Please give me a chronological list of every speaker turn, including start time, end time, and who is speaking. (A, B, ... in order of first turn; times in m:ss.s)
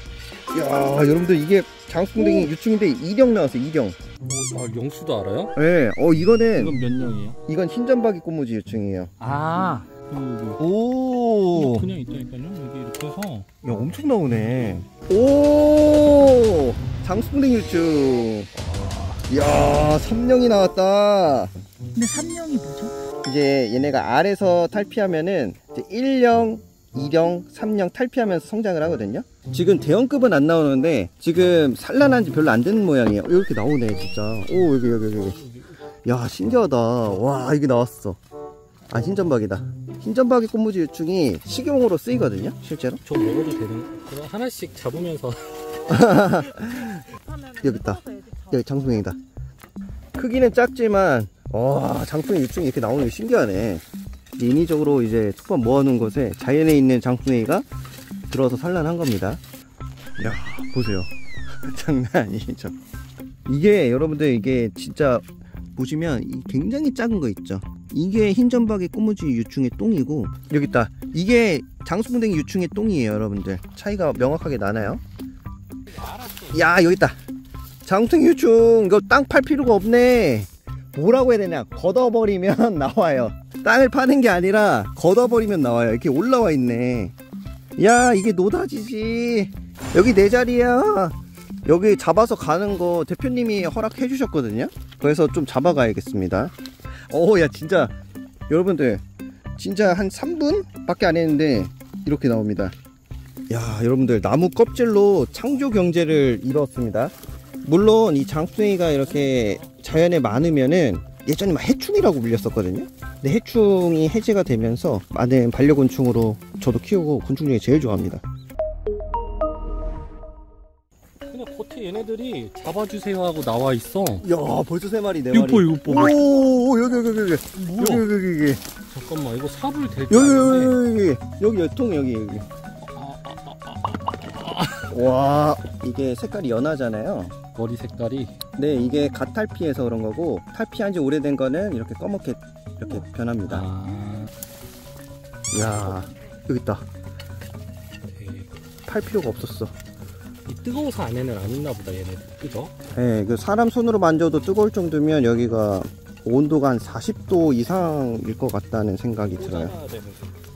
0:00.5-0:04.0 A
0:04.2-0:05.5 B
0:05.5-0:06.8 A
0:06.5-0:07.4 B
0:07.5-0:09.1 A
0:09.2-0:10.6 B
0:10.6-0:11.9 A
0:11.5-0:13.4 B
0:13.6-0:18.5 A
0:18.7-0:19.1 B
0:19.3-0:21.5 A
0:21.9-0:22.9 C
0:23.2-0:35.4 A
0:35.2-0:35.7 B
0:36.0-0:38.2 A
0:38.9-0:43.0 A
0:43.0-0:45.9 B
0:45.9-0:49.2 A
0:47.3-0:48.4 C
0:50.2-0:53.8 A
0:54.4-0:57.6 A
0:58.3-0:59.4 A
1:00.2-1:02.7 A
1:03.4-1:05.2 A
1:05.8-1:15.0 A
1:15.9-1:16.8 B
1:16.5-1:17.2 A
1:17.8-1:27.1 A
1:27.8-1:36.5 A
1:37.1-1:37.9 A
1:38.5-1:39.0 A
1:39.6-1:42.7 A
1:43.5-1:58.2 A
2:01.2-2:04.2 B
2:04.2-2:08.6 A
2:05.3-2:06.3 B
2:07.5-2:08.0 B
2:08.9-2:10.8 B
2:10.1-2:12.4 A
2:12.8-2:14.9 B
2:14.9-2:17.3 A
2:17.5-2:18.4 B
2:18.6-2:23.7 A
2:23.5-2:24.3 B
2:25.5-2:26.8 A
2:28.0-2:28.6 B
2:28.9-2:29.7 A
2:30.4-2:32.7 B
2:32.9-2:39.7 A
2:39.4-2:40.3 B